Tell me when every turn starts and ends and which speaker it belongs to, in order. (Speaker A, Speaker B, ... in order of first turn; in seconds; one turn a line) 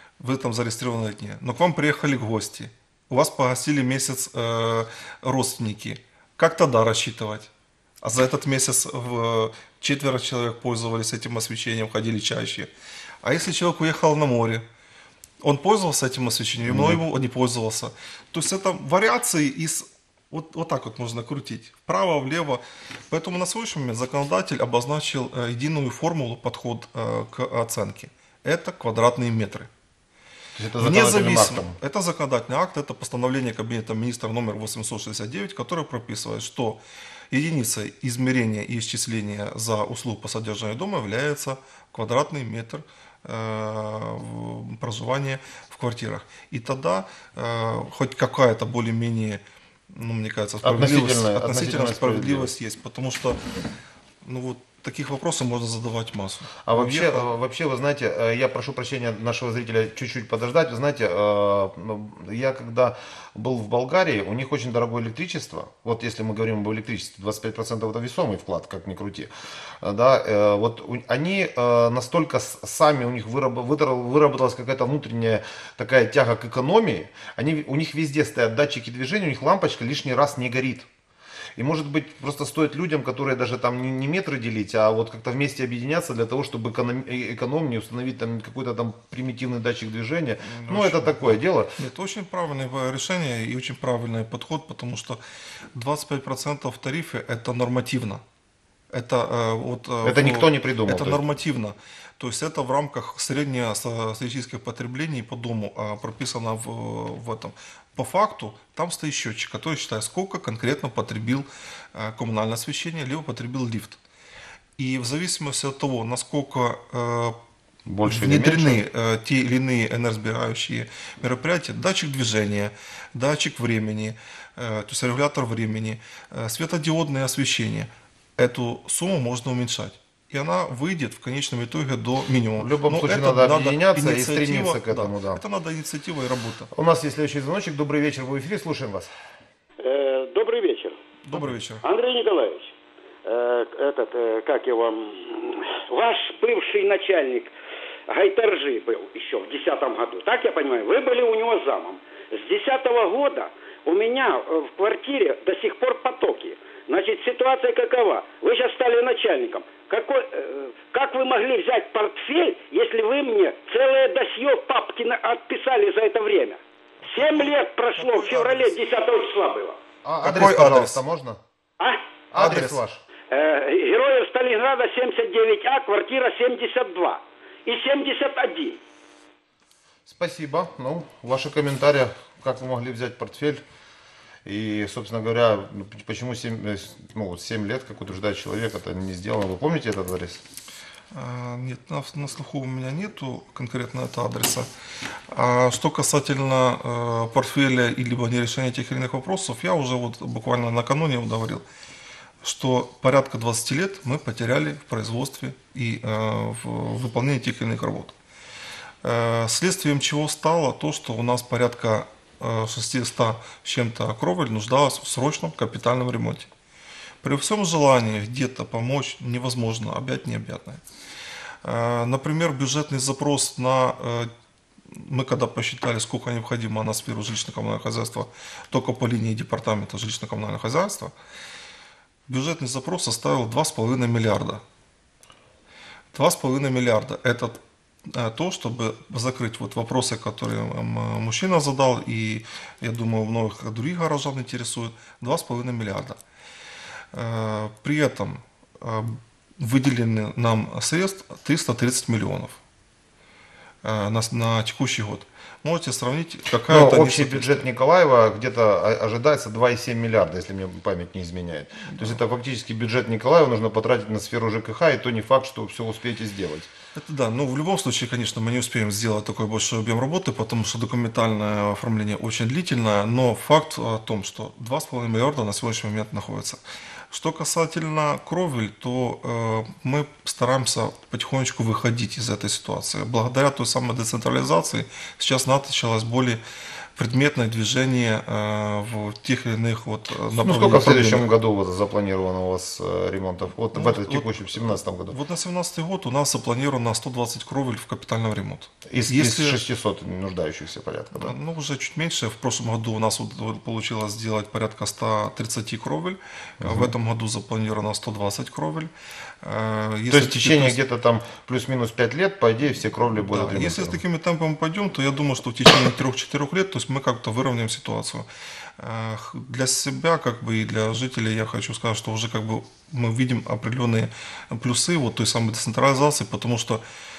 Speaker A: 0.2-7.5
Speaker A: 8.0-12.7
Speaker A: 13.2-14.6
Speaker A: 15.4-29.7
Speaker B: 16.6-17.0
Speaker B: 30.6-31.7
Speaker A: 30.8-36.8
Speaker A: 37.3-53.4
Speaker B: 50.6-52.5
Speaker A: 54.2-57.3
Speaker B: 56.6-80.9
Speaker B: 81.6-91.7
Speaker A: 90.4-95.2
Speaker A: 95.7-98.2
Speaker A: 98.9-114.0
Speaker B: 100.0-101.2
Speaker A: 114.8-117.4
Speaker B: 117.9-118.8
Speaker A: 118.0-136.7
Speaker B: 132.6-135.4
Speaker B: 136.7-139.1
Speaker C: 139.8-141.0
Speaker A: 141.2-141.8
Speaker C: 141.8-142.7
Speaker C: 143.2-147.5
Speaker C: 148.1-169.8
Speaker A: 167.1-168.7
Speaker B: 170.0-171.4
Speaker A: 170.2-171.0
Speaker B: 172.3-173.0
Speaker A: 172.3-172.8
Speaker C: 173.3-178.8
Speaker B: 180.1-183.6
Speaker B: 184.4-190.4
Speaker A: 191.1-194.7
Speaker A: 195.3-201.6
Speaker A: 202.4-208.1
Speaker A: 209.0-216.5
Speaker A: 217.2-220.8
Speaker A: 221.6-224.3
Speaker A: 224.9-231.1
Speaker A: 232.3-234.6
Speaker A: 236.1-246.2
Speaker A: 247.1-252.6
Speaker A: 253.8-257.7
Speaker B: 256.7-266.7
Speaker A: 261.8-262.2
Speaker A: 266.9-286.4
Speaker A: 286.9-291.3
Speaker B: 290.3-295.1
Speaker A: 293.7-299.6
Speaker B: 298.9-301.4
Speaker A: 301.1-308.9
Speaker B: 306.6-306.9
Speaker A: 309.4-310.8
Speaker B: 310.1-314.0
Speaker A: 313.3-318.3
Speaker A: 318.8-326.8